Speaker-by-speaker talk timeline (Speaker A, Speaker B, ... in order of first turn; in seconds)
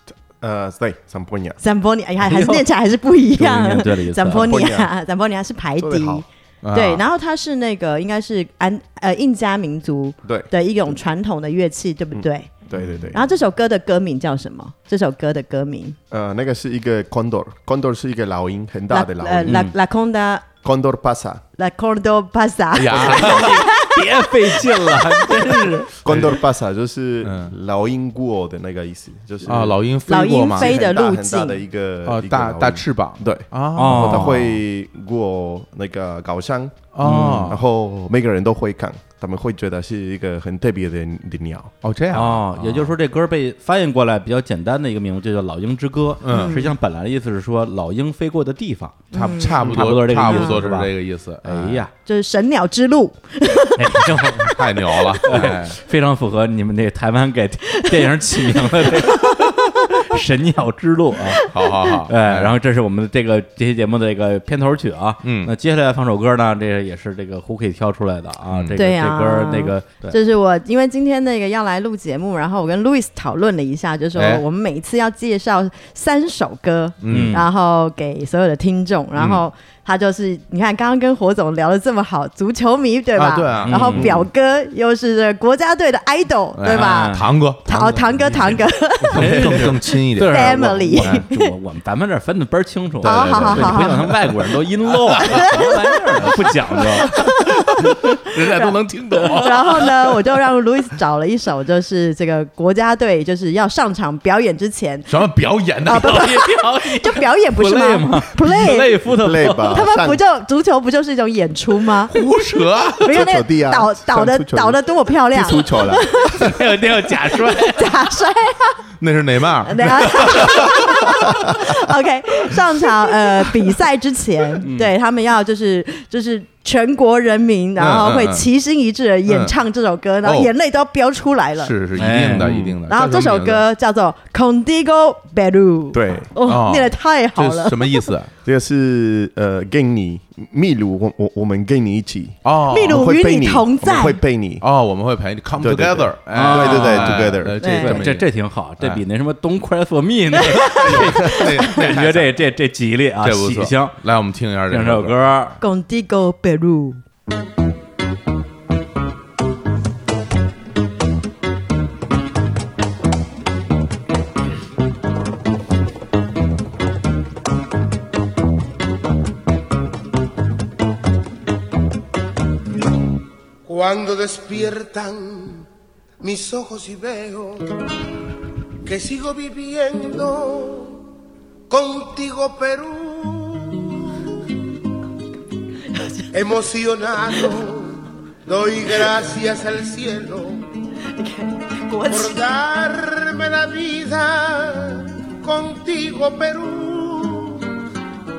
Speaker A: 0.1-1.6, 4.3-4.9, 5.8-6.2, 10.2-10.5, 12.1-13.2, 16.1-19.6, 20.6-21.4, 26.0-29.8, 30.5-36.9, 37.4-41.7, 109.1-110.2, 113.0-116.2, 132.4-132.8, 135.9-136.3, 138.4-144.6, 145.6-147.6
Speaker B: 1.6-12.5, 13.1-16.0, 18.9-20.5, 21.6-25.7, 30.1-31.6, 46.3-46.7, 49.1-50.6, 52.0-55.0, 58.0-59.5, 61.5-61.7, 68.8-91.5, 93.0-94.4, 95.2-98.0, 98.5-105.2, 105.8-109.0, 109.7-112.1, 113.0-116.6, 117.3-118.8, 119.7-131.7, 132.9-138.1, 142.7-144.2, 147.6-148.0, 150.4-151.5, 155.6-157.0, 185.9-186.5, 187.3-187.5, 191.1-192.4
Speaker C: 2.2-2.6, 3.3-4.5, 19.5-19.7, 22.9-25.9, 33.8-34.5, 37.0-37.5, 42.1-50.9, 51.4-51.9, 53.8-54.6, 55.2-61.5, 62.0-70.2, 77.1-77.4, 83.7-84.2, 86.7-87.2, 89.1-97.1, 106.0-109.8, 116.4-117.9, 124.6-124.9, 131.9-132.5, 146.3-147.3, 147.8-154.0, 154.7-155.6
Speaker D: 6.6-7.0, 22.7-23.6, 26.1-26.4, 27.2-27.5, 29.4-30.8, 32.0-34.5, 36.9-37.6, 41.8-42.9, 46.2-46.6, 49.1-51.9, 54.5-55.8, 61.5-62.5, 65.2-65.5, 68.5-68.8, 74.1-74.4, 77.0-77.5, 79.1-79.4, 83.1-84.3, 86.5-91.2, 93.0-94.2, 97.1-100.1, 105.1-106.2, 112.1-113.1, 119.0-121.1, 127.8-128.5, 129.2-129.6, 130.2-130.5, 131.6-133.6, 136.4-138.3, 142.4-143.0, 144.6-149.0, 150.6-152.4, 153.2-155.4
Speaker E: 173.7-175.7, 176.2-177.7, 178.8-181.0, 181.7-184.1, 186.3-190.7, 192.1-197.7